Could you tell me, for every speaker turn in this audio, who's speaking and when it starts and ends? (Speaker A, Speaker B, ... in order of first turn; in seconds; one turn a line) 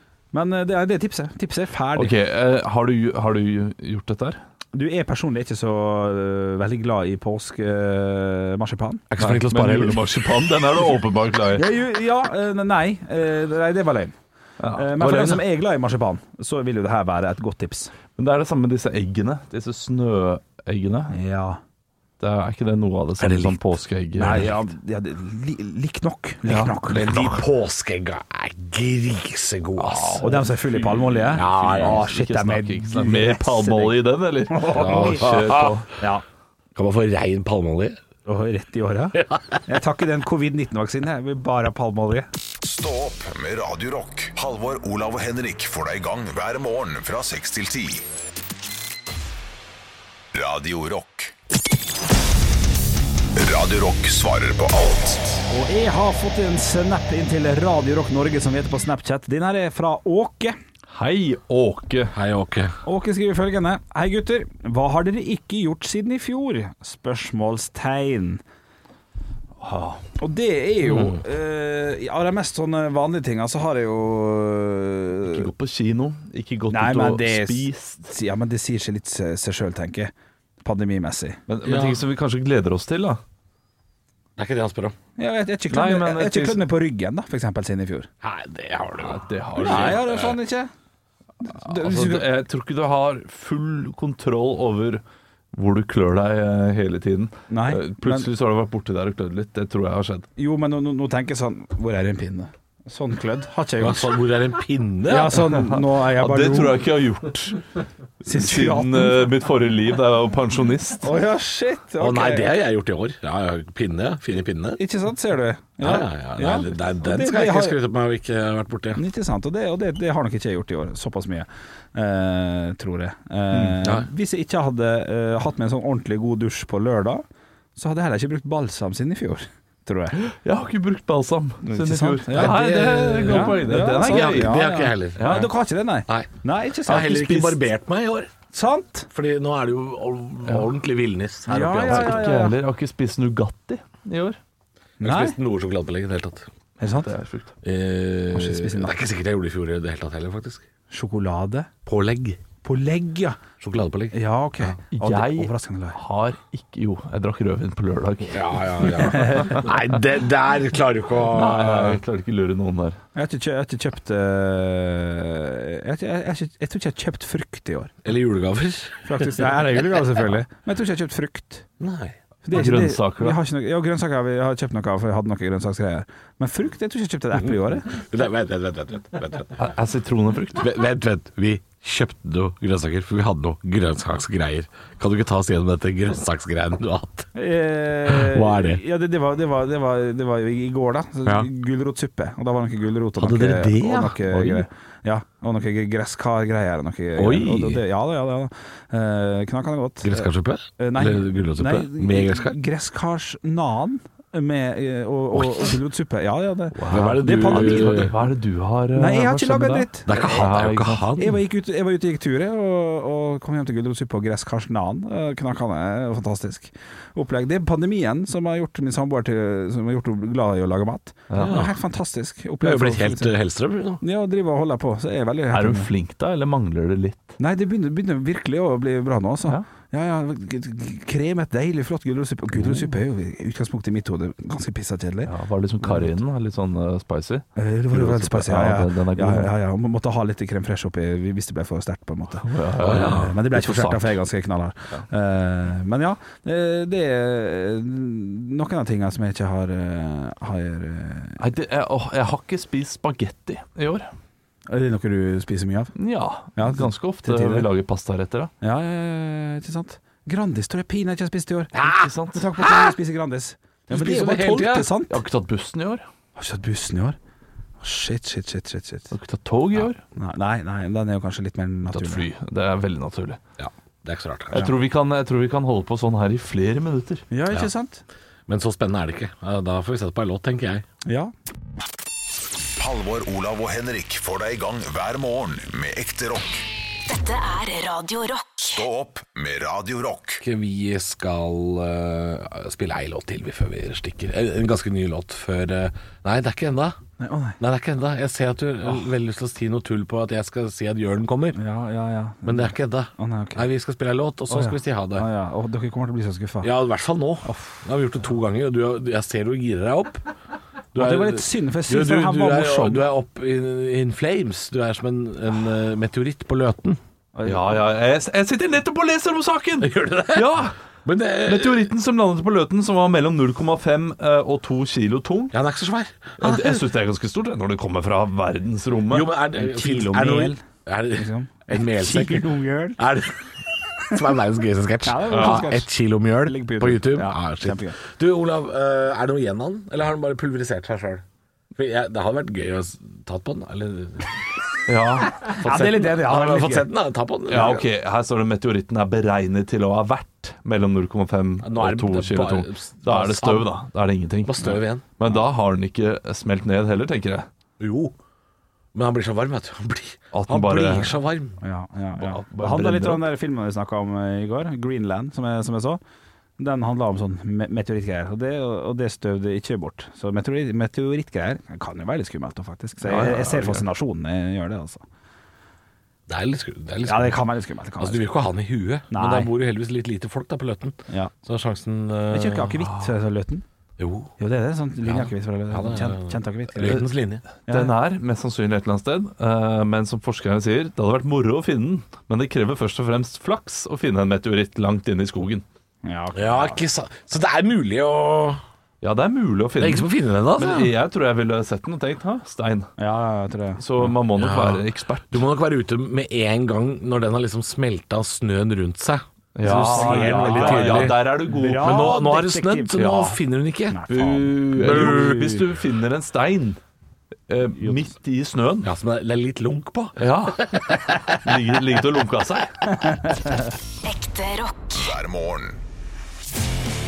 Speaker A: 0.3-2.1
Speaker B: 1.9-4.4
Speaker A: 4.7-9.0
Speaker C: 9.1-10.1
Speaker B: 9.2-11.7
Speaker A: 11.6-14.1
Speaker B: 14.6-15.4
Speaker A: 14.8-17.9
Speaker B: 18.2-21.1
Speaker A: 21.1-21.6
Speaker B: 22.2-24.6
Speaker C: 23.2-23.6
Speaker A: 24.2-27.2
Speaker B: 26.5-27.4
Speaker C: 26.9-30.2
Speaker B: 29.8-35.9
Speaker A: 30.2-34.0
Speaker C: 31.3-32.0
Speaker A: 34.5-36.2
Speaker C: 34.7-35.9
Speaker C: 36.8-38.0
Speaker A: 38.3-42.3
Speaker C: 39.2-39.6
Speaker D: 42.6-48.1
Speaker D: 50.3-51.3
Speaker D: 53.4-55.4
Speaker A: 55.5-60.6
Speaker B: 60.9-62.1
Speaker C: 62.1-62.8
Speaker A: 62.8-68.4
Speaker B: 69.6-70.0
Speaker A: 70.2-75.5
Speaker B: 75.3-78.1
Speaker A: 76.7-80.1
Speaker A: 80.6-81.4
Speaker B: 81.5-83.2
Speaker C: 81.6-82.0
Speaker C: 84.4-85.0
Speaker A: 85.2-88.1
Speaker B: 85.7-86.6
Speaker C: 88.2-90.3
Speaker B: 89.0-90.4
Speaker A: 89.6-90.7
Speaker A: 91.4-92.3
Speaker B: 91.5-95.0
Speaker B: 95.5-100.3
Speaker A: 97.5-98.3
Speaker A: 100.4-104.2
Speaker C: 103.8-105.5
Speaker A: 105.1-106.8
Speaker B: 105.5-107.6
Speaker A: 108.2-109.3
Speaker B: 108.3-111.1
Speaker A: 111.0-112.5
Speaker C: 112.0-114.8
Speaker A: 114.8-117.8
Speaker C: 115.8-119.0
Speaker A: 119.0-127.2
Speaker B: 123.5-123.8
Speaker A: 127.8-130.2
Speaker B: 130.2-134.6
Speaker A: 131.7-132.6
Speaker C: 132.3-135.5
Speaker A: 133.2-137.2
Speaker B: 135.2-135.5
Speaker C: 136.8-138.3
Speaker B: 136.9-137.6
Speaker A: 138.5-139.1
Speaker C: 139.1-142.3
Speaker A: 141.5-142.6
Speaker B: 141.8-144.4
Speaker A: 145.0-145.4
Speaker C: 145.0-146.5
Speaker A: 146.8-147.1
Speaker B: 146.9-147.5
Speaker C: 147.6-150.7
Speaker A: 148.3-148.9
Speaker A: 150.9-151.7
Speaker C: 151.9-152.4
Speaker A: 152.6-153.4
Speaker C: 153.6-154.8
Speaker A: 154.1-156.0
Speaker B: 154.9-159.3
Speaker C: 158.3-162.0
Speaker A: 159.0-159.6
Speaker B: 161.3-163.0
Speaker A: 163.2-167.9
Speaker C: 168.1-169.7
Speaker A: 169.1-171.7
Speaker C: 171.8-172.2
Speaker A: 172.4-177.9
Speaker B: 172.5-173.4
Speaker C: 177.9-179.7
Speaker B: 179.6-180.7
Speaker C: 180.6-187.3
Speaker A: 187.3-208.2
Speaker C: 188.1-188.8
Speaker C: 193.2-194.7
Speaker C: 197.2-197.8
Speaker C: 200.0-202.6
Speaker C: 205.3-205.7
Speaker B: 206.8-211.1
Speaker C: 206.9-208.2
Speaker A: 208.9-210.5
Speaker C: 210.1-211.4
Speaker A: 211.2-223.4
Speaker B: 221.3-221.6
Speaker C: 221.4-221.8
Speaker C: 222.6-224.0
Speaker A: 224.0-225.9
Speaker B: 225.5-227.4
Speaker A: 227.4-236.1
Speaker B: 235.3-239.5
Speaker A: 237.6-251.4
Speaker B: 242.4-243.3
Speaker C: 242.8-244.1
Speaker B: 251.4-254.1
Speaker A: 254.7-256.0
Speaker B: 256.0-258.5
Speaker A: 256.6-257.7
Speaker A: 258.6-261.8
Speaker C: 261.7-262.9
Speaker B: 261.9-262.5
Speaker A: 262.3-265.2
Speaker C: 263.9-264.9
Speaker B: 265.1-266.0
Speaker A: 266.4-267.2
Speaker A: 267.8-269.1
Speaker B: 269.1-270.0
Speaker A: 270.1-272.3
Speaker B: 271.9-273.4
Speaker C: 273.6-274.7
Speaker B: 274.5-277.2
Speaker A: 277.3-278.0
Speaker C: 278.5-280.9
Speaker A: 281.1-281.3
Speaker D: 282.8-286.7
Speaker E: 287.1-288.9
Speaker D: 288.6-290.4
Speaker C: 290.4-297.0
Speaker A: 297.2-297.6
Speaker C: 297.6-301.6
Speaker A: 301.6-303.6
Speaker C: 302.4-305.3
Speaker A: 304.5-306.7
Speaker C: 306.6-310.2
Speaker A: 307.4-307.8
Speaker C: 310.9-317.0
Speaker A: 311.0-313.0
Speaker A: 317.4-317.8
Speaker B: 317.4-320.8
Speaker C: 319.8-321.9
Speaker B: 321.4-325.6
Speaker C: 325.5-326.9
Speaker B: 326.4-329.3
Speaker C: 329.1-333.5
Speaker A: 329.5-330.6
Speaker A: 331.1-333.0
Speaker C: 334.1-341.2
Speaker A: 335.0-335.9
Speaker B: 335.3-335.7
Speaker A: 336.4-338.0
Speaker C: 341.8-344.4
Speaker B: 344.9-345.4
Speaker A: 345.3-346.9
Speaker C: 345.5-347.8
Speaker B: 347.5-357.5
Speaker C: 351.6-353.7
Speaker C: 354.4-355.1
Speaker C: 357.8-358.1
Speaker C: 358.9-361.6
Speaker B: 360.3-361.1
Speaker A: 361.6-366.0
Speaker B: 362.2-363.3
Speaker A: 366.6-375.0
Speaker B: 373.0-373.8
Speaker C: 376.3-377.4
Speaker A: 377.1-378.3
Speaker C: 378.0-382.9
Speaker A: 379.1-379.5
Speaker A: 382.3-383.6
Speaker C: 384.0-384.3
Speaker A: 384.4-387.1
Speaker C: 385.1-387.4
Speaker B: 387.6-395.6
Speaker A: 387.7-387.9
Speaker A: 396.0-396.8
Speaker C: 396.4-398.6
Speaker B: 399.0-402.9
Speaker C: 399.8-400.9
Speaker A: 403.0-404.1
Speaker B: 403.8-405.4
Speaker C: 404.4-415.7
Speaker B: 409.6-412.2
Speaker A: 409.7-413.0
Speaker B: 413.0-413.4
Speaker A: 413.9-414.4
Speaker B: 414.1-416.8
Speaker B: 417.5-418.9
Speaker A: 417.8-418.1
Speaker C: 418.8-421.0
Speaker B: 420.2-420.7
Speaker B: 421.3-423.1
Speaker A: 422.9-423.7
Speaker E: 424.0-425.1
Speaker D: 424.9-425.8